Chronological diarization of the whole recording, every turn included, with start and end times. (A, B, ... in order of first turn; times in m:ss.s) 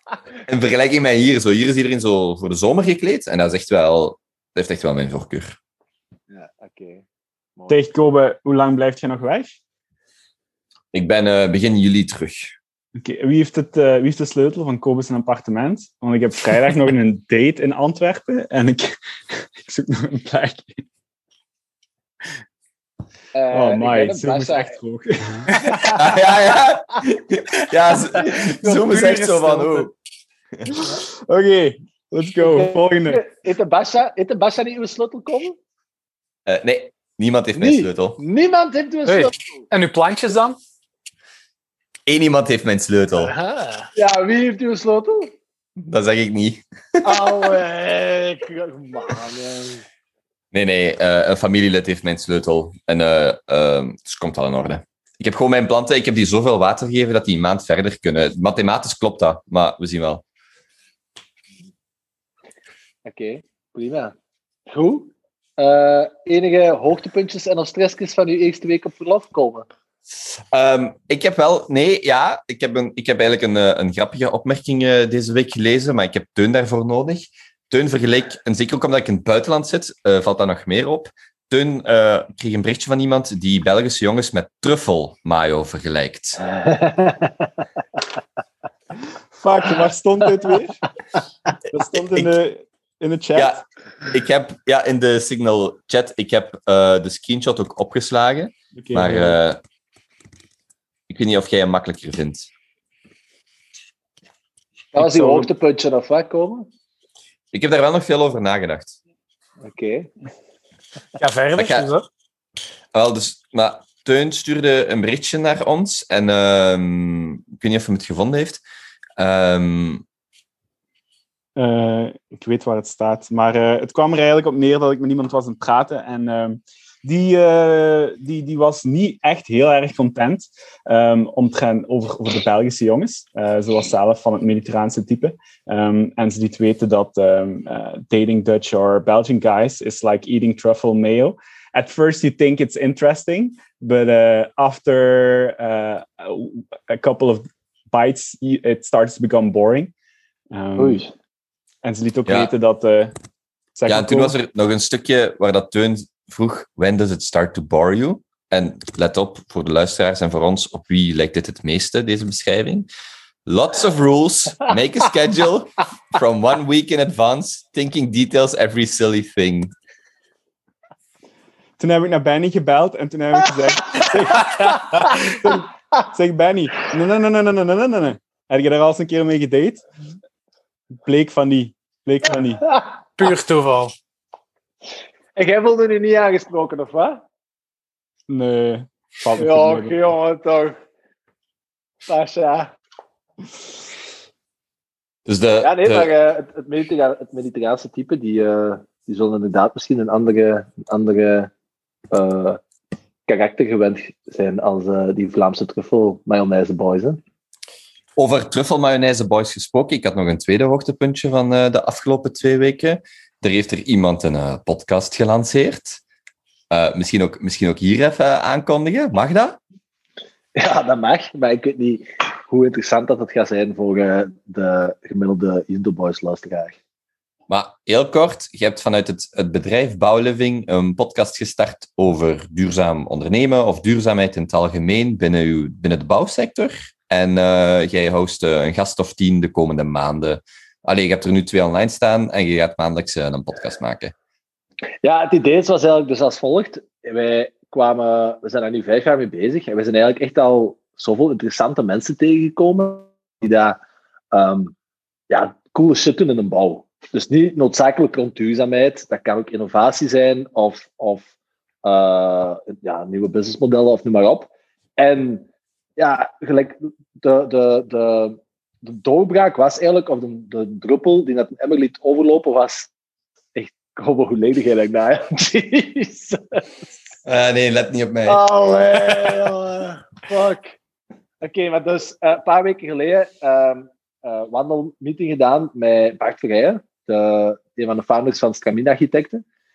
0:00.4-0:05.6 A
0:06.3-0:07.0 B
0:07.7-0:09.6 C
0:10.9-0:12.5 A
0:13.0-0:20.8 C
0:23.3-0:24.8 B
0:23.5-0:25.8 C
0:25.8-0:29.9 A
0:28.6-0:29.9 D
0:30.8-0:33.2 C
0:32.4-0:35.6 B
0:36.4-0:38.2 A
0:37.6-0:39.3 B
0:39.1-0:40.6 D
0:42.1-0:43.3 A
0:43.2-0:43.9 D
0:44.0-0:45.3 B
0:45.8-0:47.5 A
0:47.0-0:49.8 B
0:50.5-1:00.2 A
1:03.0-1:04.1 B
1:04.7-1:09.7 B
1:10.5-1:26.4 A
1:26.4-1:27.5 B
1:29.3-1:30.8 C
1:31.7-1:33.5 C
1:31.9-1:32.3 A
1:33.4-1:39.6 A
1:38.7-1:39.4 C
1:41.1-1:42.5 A
1:44.9-1:46.7 B
1:45.0-1:45.5 C
1:47.5-1:49.0 A
1:49.6-1:50.1 B
1:51.2-1:52.0 D
1:51.6-1:51.9 A
1:52.9-1:58.6 A
1:59.2-2:00.0 A
2:01.6-2:29.9 C
2:30.5-2:31.0 C
2:30.8-2:31.1 B
2:31.8-2:33.1 C
2:32.2-2:32.5 A
2:33.7-2:34.3 C
2:33.9-2:42.9 A
2:43.4-2:49.7 A
2:51.8-2:59.8 C
2:54.5-2:54.8 D
3:01.0-3:02.6 C
3:03.2-3:03.9 D
3:05.4-3:07.2 B
3:08.3-3:10.0 C
3:09.4-3:10.8 B
3:12.1-3:12.7 B
3:15.2-3:16.1 A
3:15.6-3:21.5 B
3:22.1-3:22.6 B
3:23.3-3:27.2 B
3:28.2-3:36.0 A
3:36.7-3:39.6 A
3:40.6-3:46.8 B
3:47.5-4:04.1 A
4:05.0-4:13.8 B
4:14.3-4:14.7 B
4:15.3-4:21.3 B
4:21.8-4:25.4 B
4:26.0-4:32.9 B
4:33.5-4:36.6 B
4:37.2-4:38.4 A
4:38.2-4:40.8 B
4:41.4-4:49.4 B